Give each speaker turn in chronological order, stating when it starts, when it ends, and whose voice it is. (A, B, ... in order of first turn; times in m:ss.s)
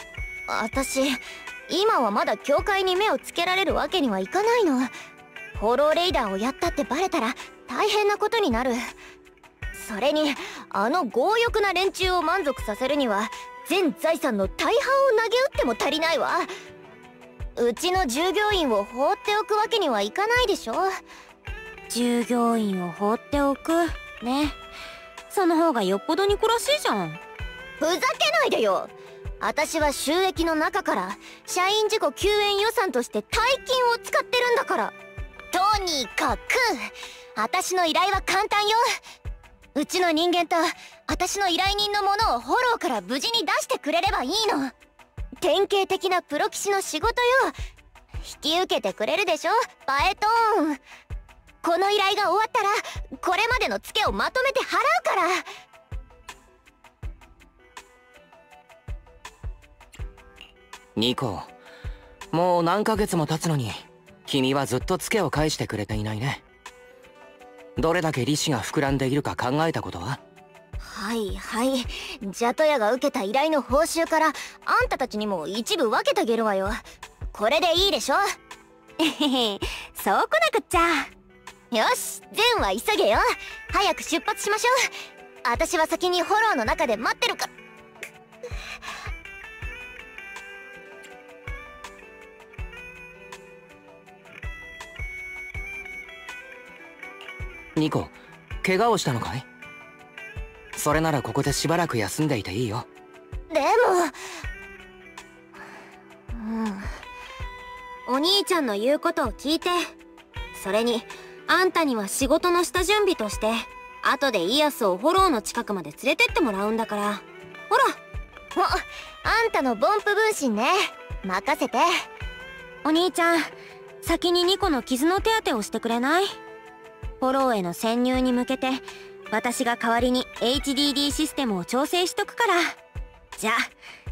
0:00.5-0:04.9 A
0:05.6-0:08.8 A
0:09.8-0:16.5 A
0:17.6-0:20.9 A
0:21.9-0:24.6 B
0:25.3-0:27.2 B
0:27.8-0:35.0 A
0:35.5-0:38.8 A
0:39.8-0:44.7 A
0:45.4-0:47.6 A
0:48.2-0:50.8 A
0:51.6-0:55.5 A
1:01.0-1:01.5 C
1:02.3-1:06.4 C
1:07.8-1:10.2 C
1:10.8-1:16.8 A
1:17.3-1:18.2 A
1:19.0-1:21.1 B
1:21.7-1:24.7 A
1:25.4-1:27.5 A
1:37.8-1:39.5 C
1:40.8-1:42.9 C
1:43.5-1:44.1 A
1:46.5-1:46.8 A
1:48.1-1:49.9 B
1:50.5-1:58.0 B
1:58.6-2:01.9 A
2:02.8-2:06.4 B
2:07.2-2:12.8 B
2:13.4-2:13.7 B